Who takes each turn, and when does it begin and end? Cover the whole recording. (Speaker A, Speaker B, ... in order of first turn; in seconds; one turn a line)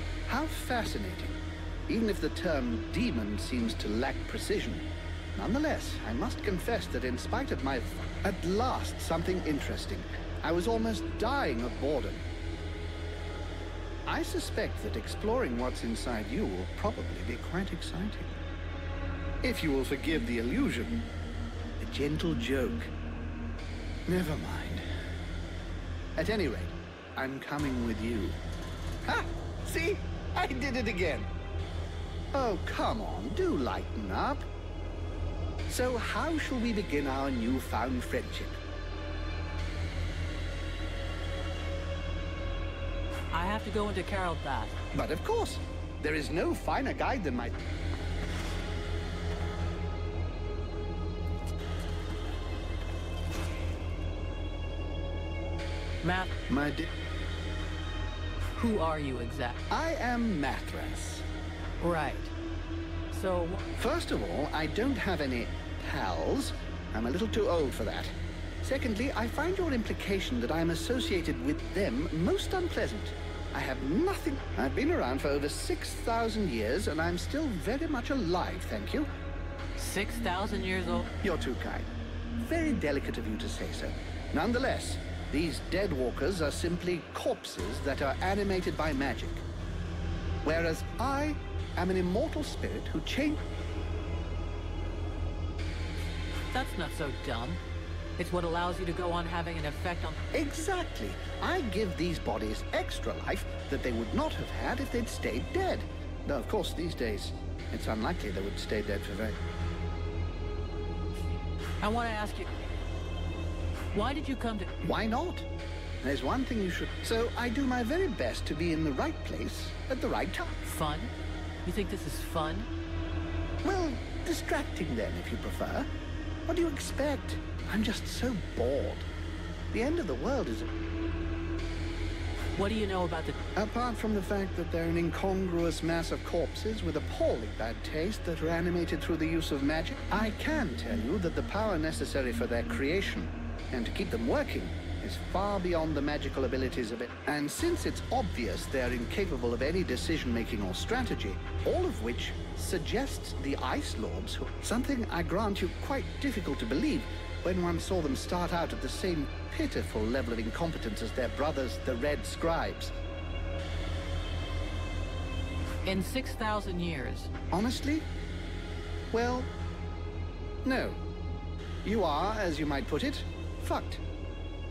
Speaker A: 0.3-12.3
Speaker A: 14.1-18.4
Speaker A: 19.4-21.0
Speaker A: 21.8-22.9
Speaker A: 24.1-24.9
Speaker A: 26.2-28.4
Speaker A: 29.1-31.3
Speaker A: 32.3-34.5
Speaker A: 35.7-38.6
Speaker B: 43.3-44.7
Speaker A: 44.9-47.5
Speaker B: 56.0-56.3
Speaker A: 56.5-56.9
Speaker B: 58.5-59.6
Speaker A: 59.7-61.3
Speaker B: 61.8-62.3
Speaker B: 63.1-63.6
Speaker A: 63.8-79.1
Speaker B: 79.8-81.1
Speaker A: 81.2-81.9
Speaker A: 82.4-89.5
Speaker A: 90.4-93.4
Speaker B: 96.5-97.6
Speaker B: 98.2-100.2
Speaker A: 100.3-109.4
Speaker B: 111.8-112.5
Speaker B: 113.9-114.7
Speaker A: 114.8-115.5
Speaker A: 116.0-120.6
Speaker B: 120.6-121.1
Speaker B: 121.6-122.7
Speaker A: 123.6-125.9
Speaker A: 126.5-129.1
Speaker A: 129.7-130.7
Speaker B: 132.6-133.4
Speaker A: 133.6-162.9
Speaker B: 165.8-167.3
Speaker A: 167.5-168.1
Speaker A: 169.1-169.5
Speaker A: 170.6-171.0
Speaker A: 171.8-174.0